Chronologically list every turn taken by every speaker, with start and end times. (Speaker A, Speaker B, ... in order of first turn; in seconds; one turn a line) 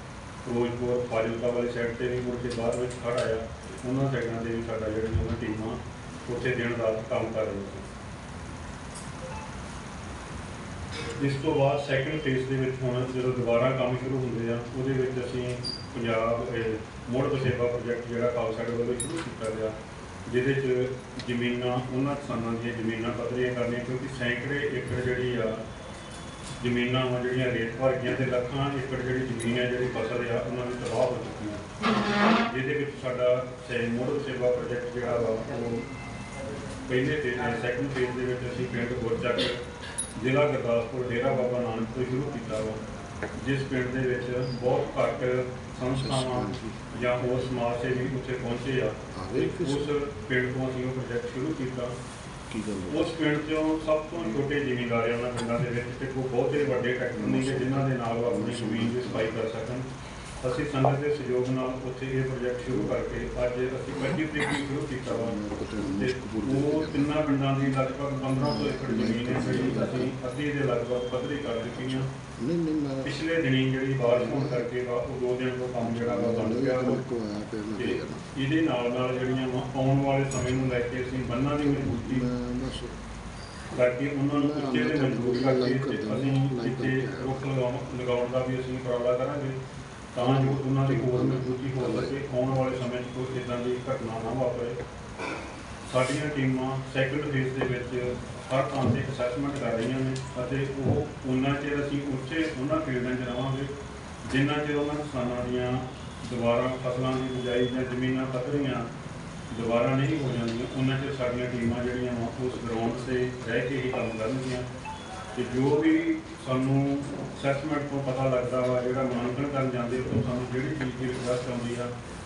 Speaker A: 0.4-7.9
Speaker A: 11.2-19.7
Speaker A: 20.2-25.6
Speaker A: 26.6-31.7
Speaker A: 32.4-35.8
Speaker A: 36.9-39.6
Speaker A: 40.1-42.8
Speaker A: 43.4-52.0
Speaker B: 49.1-49.6
Speaker B: 52.5-52.9
Speaker A: 52.9-59.9
Speaker A: 60.4-72.1
Speaker B: 72.2-73.1
Speaker A: 73.0-77.1
Speaker B: 76.5-77.7
Speaker A: 77.7-82.3
Speaker B: 81.8-83.0
Speaker A: 83.7-89.6
Speaker B: 84.3-87.1
Speaker A: 90.1-94.8
Speaker B: 90.2-90.7
Speaker A: 95.8-103.7
Speaker A: 104.2-108.9
Speaker A: 109.5-114.7
Speaker A: 115.3-121.9